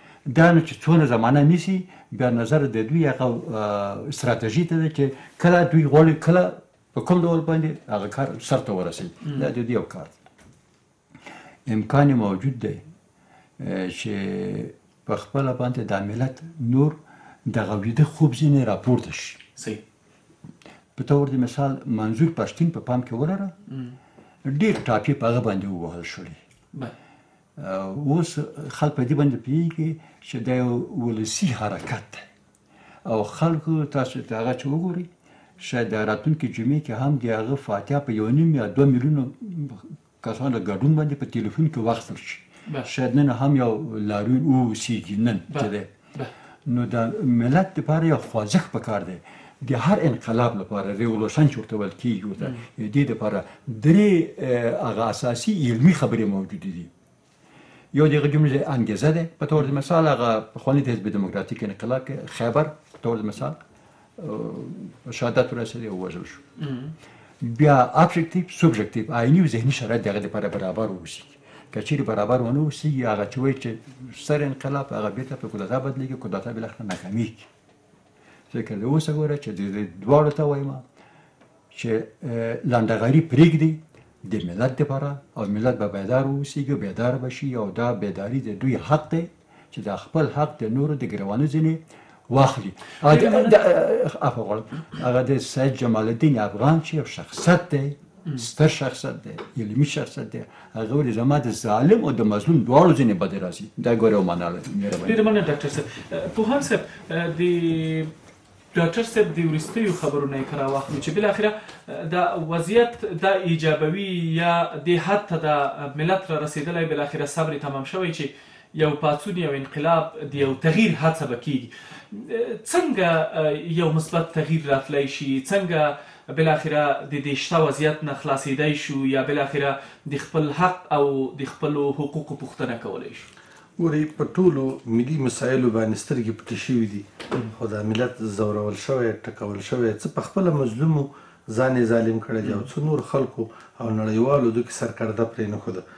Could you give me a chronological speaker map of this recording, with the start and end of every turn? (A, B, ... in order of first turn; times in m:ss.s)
0:00.3-0:10.2 A
0:11.7-0:12.8 A
0:13.6-0:19.4 A
0:21.0-0:23.5 A
0:24.4-0:26.4 A
0:27.6-0:32.3 A
0:33.0-0:35.1 A
0:35.6-0:45.9 A
0:45.5-0:46.3 B
0:46.7-0:56.9 A
0:57.9-1:03.6 A
1:04.2-1:06.4 A
1:06.6-1:06.9 B
1:07.4-1:17.5 A
1:18.5-1:20.8 A
1:21.7-1:45.2 A
1:33.0-1:33.6 B
1:45.0-1:48.1 B
1:48.7-2:13.3 B
2:13.8-2:25.8 C